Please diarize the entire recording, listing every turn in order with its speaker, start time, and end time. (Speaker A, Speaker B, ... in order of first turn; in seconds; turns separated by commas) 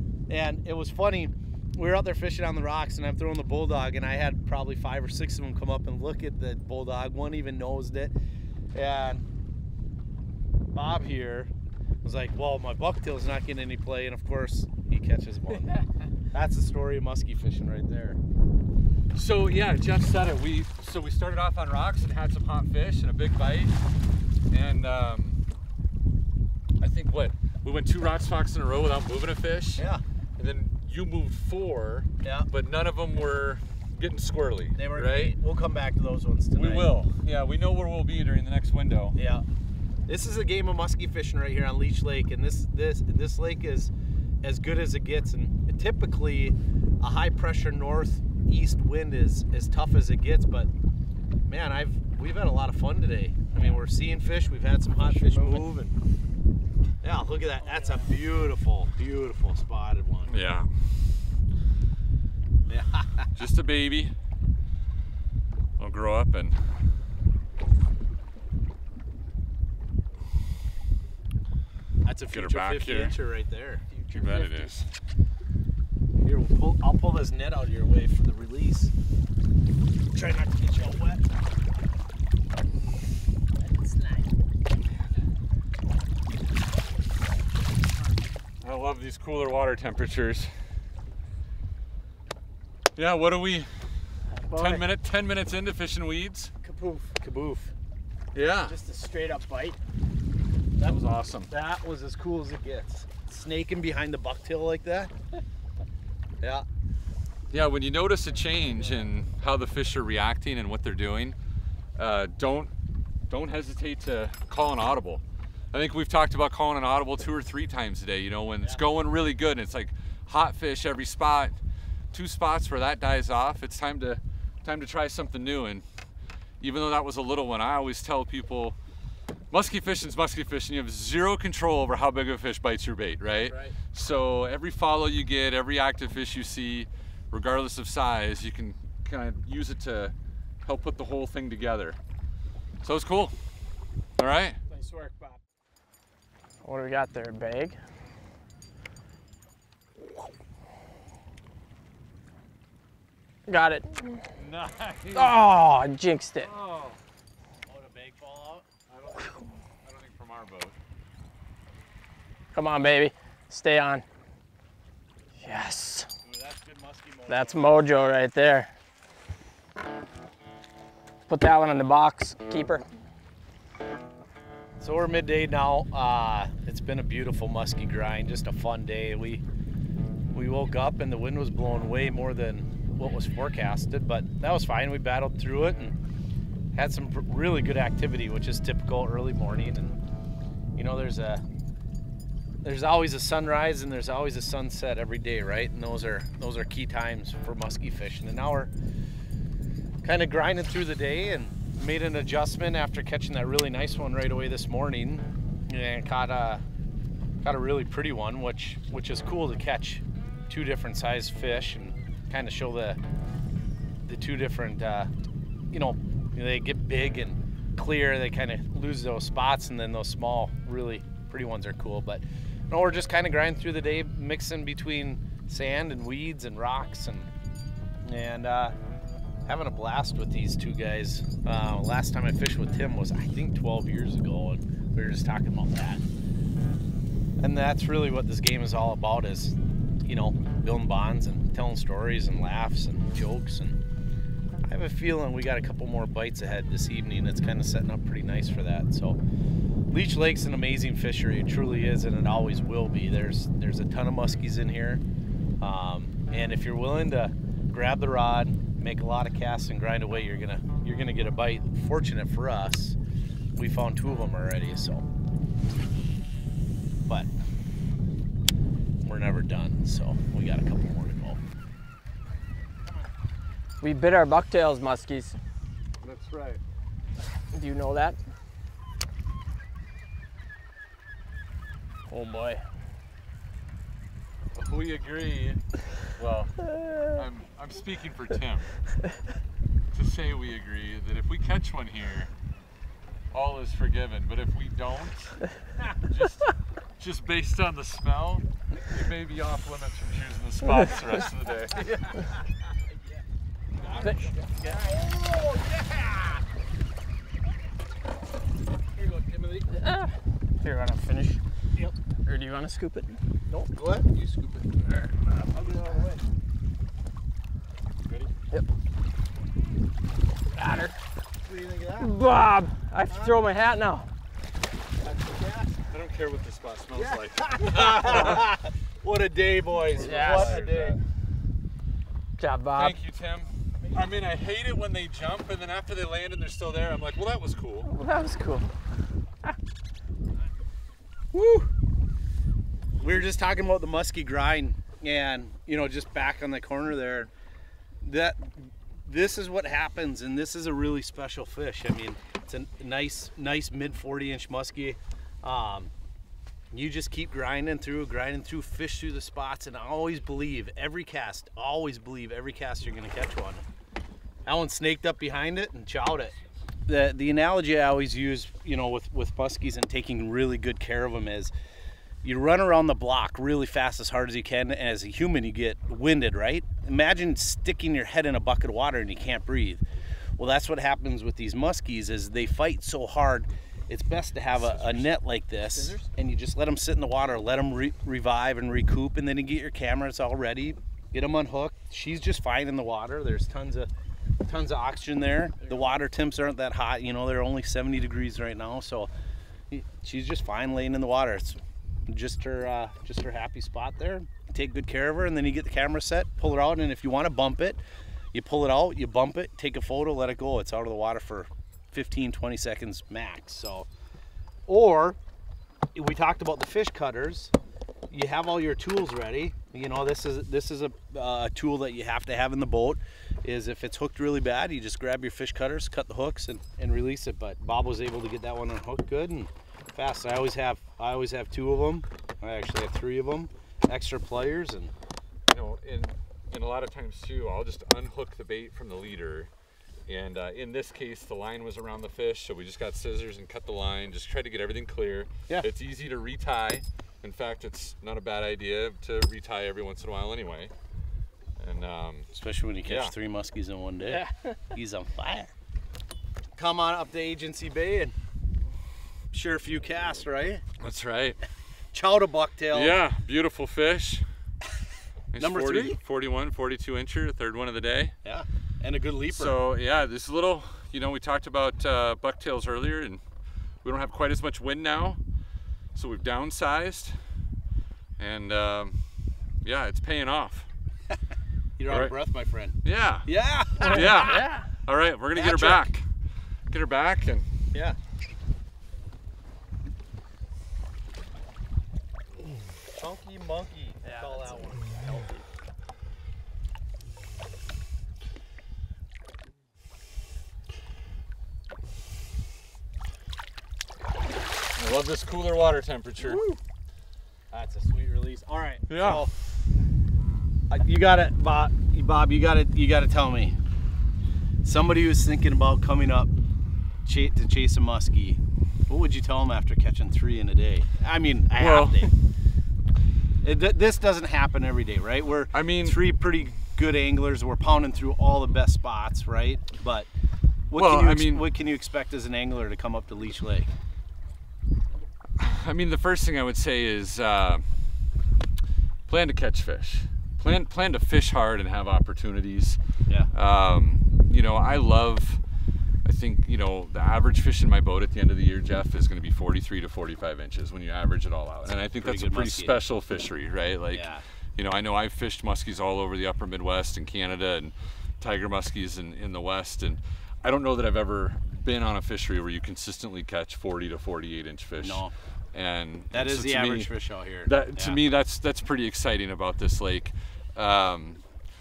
Speaker A: 0.3-8.1, Speaker A: 8.7-9.2, Speaker A: 10.7-11.5, Speaker A: 12.0-15.8, Speaker A: 16.3-18.2, Speaker B: 19.1-23.8, Speaker B: 24.5-25.4, Speaker B: 26.8-29.9, Speaker A: 29.8-30.0, Speaker B: 30.4-35.3, Speaker A: 32.2-32.5, Speaker A: 34.7-36.9, Speaker B: 36.5-39.2, Speaker A: 39.1-39.4, Speaker A: 40.1-43.9, Speaker A: 44.4-50.7, Speaker A: 51.5-55.9, Speaker B: 55.2-55.6, Speaker A: 57.0-60.4, Speaker B: 60.3-60.7, Speaker A: 62.7-63.3, Speaker B: 63.3-64.1, Speaker B: 65.8-66.6, Speaker A: 72.0-74.7, Speaker B: 72.3-73.2, Speaker C: 74.1-74.7, Speaker B: 74.1-74.9, Speaker A: 76.2-78.9, Speaker A: 80.1-81.2, Speaker A: 83.6-84.3, Speaker B: 88.6-90.5, Speaker B: 93.0-93.7, Speaker C: 94.3-94.9, Speaker B: 94.5-96.5, Speaker A: 96.6-97.7, Speaker B: 98.3-98.8, Speaker C: 98.7-99.8, Speaker A: 100.8-105.1, Speaker B: 100.8-101.5, Speaker A: 106.4-106.7, Speaker B: 107.5-111.4, Speaker B: 112.0-112.7, Speaker B: 113.3-121.6, Speaker B: 122.1-125.8, Speaker B: 126.6-128.8, Speaker B: 129.5-142.0, Speaker A: 133.4-133.7, Speaker B: 142.8-143.3, Speaker B: 144.2-144.6, Speaker A: 144.8-145.3, Speaker C: 146.6-147.8, Speaker C: 153.5-154.2, Speaker B: 154.4-155.4, Speaker C: 155.1-156.5, Speaker B: 156.4-157.0, Speaker A: 157.7-158.7, Speaker B: 158.9-160.8, Speaker C: 162.5-164.0, Speaker C: 165.4-166.1, Speaker A: 166.2-167.8, Speaker C: 167.3-168.7, Speaker C: 171.3-172.8, Speaker A: 174.8-179.4, Speaker A: 180.3-185.9, Speaker A: 186.7-189.9, Speaker A: 190.8-191.4, Speaker A: 192.6-198.7, Speaker A: 200.0-206.6, Speaker A: 207.4-213.0, Speaker A: 214.0-215.1, Speaker A: 215.7-227.3, Speaker A: 228.0-228.7, Speaker A: 229.4-236.0, Speaker A: 237.4-243.8, Speaker A: 244.6-249.2, Speaker A: 249.9-255.0, Speaker A: 255.6-263.0, Speaker A: 263.6-265.1, Speaker A: 269.0-271.4, Speaker C: 273.8-275.4, Speaker B: 276.0-276.6, Speaker C: 277.5-278.2, Speaker C: 282.1-282.6, Speaker B: 284.5-285.6, Speaker B: 286.1-288.7, Speaker B: 289.9-292.3, Speaker B: 293.3-295.4, Speaker B: 296.0-302.3, Speaker A: 303.8-306.4, Speaker C: 304.0-304.7, Speaker A: 308.9-309.7, Speaker C: 309.7-311.4, Speaker C: 312.2-313.2, Speaker A: 313.5-316.2, Speaker C: 320.5-320.9, Speaker A: 321.4-322.1, Speaker C: 322.0-324.1, Speaker A: 323.1-323.4, Speaker A: 325.0-325.8, Speaker B: 325.9-328.5, Speaker A: 326.9-331.0, Speaker B: 329.7-331.0, Speaker C: 330.0-330.6, Speaker C: 332.4-333.0, Speaker B: 332.7-337.9, Speaker C: 337.8-338.7, Speaker A: 341.3-341.7, Speaker A: 343.0-347.3, Speaker A: 348.0-355.9, Speaker A: 356.7-363.6, Speaker A: 364.4-366.3, Speaker A: 366.9-371.5, Speaker A: 372.2-379.8, Speaker A: 380.4-393.9, Speaker B: 384.5-385.2, Speaker A: 394.4-399.1, Speaker A: 399.7-413.9, Speaker A: 414.7-415.2, Speaker A: 415.9-417.5, Speaker A: 418.1-434.9, Speaker B: 435.5-439.5, Speaker B: 440.1-450.7, Speaker B: 451.6-452.3, Speaker A: 452.3-455.5, Speaker B: 452.9-453.1, Speaker C: 454.1-454.5, Speaker A: 456.5-458.1, Speaker A: 459.3-460.6, Speaker B: 460.8-461.4, Speaker A: 461.9-463.0, Speaker B: 462.7-464.2, Speaker B: 465.3-468.1, Speaker A: 465.4-466.0, Speaker A: 468.2-469.6, Speaker B: 469.3-473.2, Speaker B: 473.8-475.2, Speaker B: 475.9-477.2, Speaker B: 478.2-479.0, Speaker B: 479.6-480.7, Speaker A: 481.8-484.4, Speaker B: 481.9-482.1, Speaker B: 482.8-486.1, Speaker C: 483.8-484.7, Speaker A: 485.3-485.9, Speaker B: 486.7-487.4, Speaker A: 492.9-495.4, Speaker C: 494.0-495.3, Speaker B: 504.8-506.4, Speaker A: 506.2-506.6, Speaker A: 507.5-509.3, Speaker B: 508.9-509.2, Speaker A: 510.7-513.6, Speaker A: 514.6-516.3, Speaker A: 517.0-522.1, Speaker B: 521.5-522.1, Speaker A: 523.4-530.1, Speaker B: 525.5-526.0, Speaker A: 530.7-533.7, Speaker B: 530.7-531.5, Speaker B: 535.4-537.6, Speaker B: 539.1-542.8, Speaker B: 543.3-545.4, Speaker B: 546.0-566.9, Speaker A: 551.6-552.8, Speaker A: 553.9-554.2, Speaker A: 564.8-565.1, Speaker A: 566.1-568.0, Speaker B: 567.4-571.2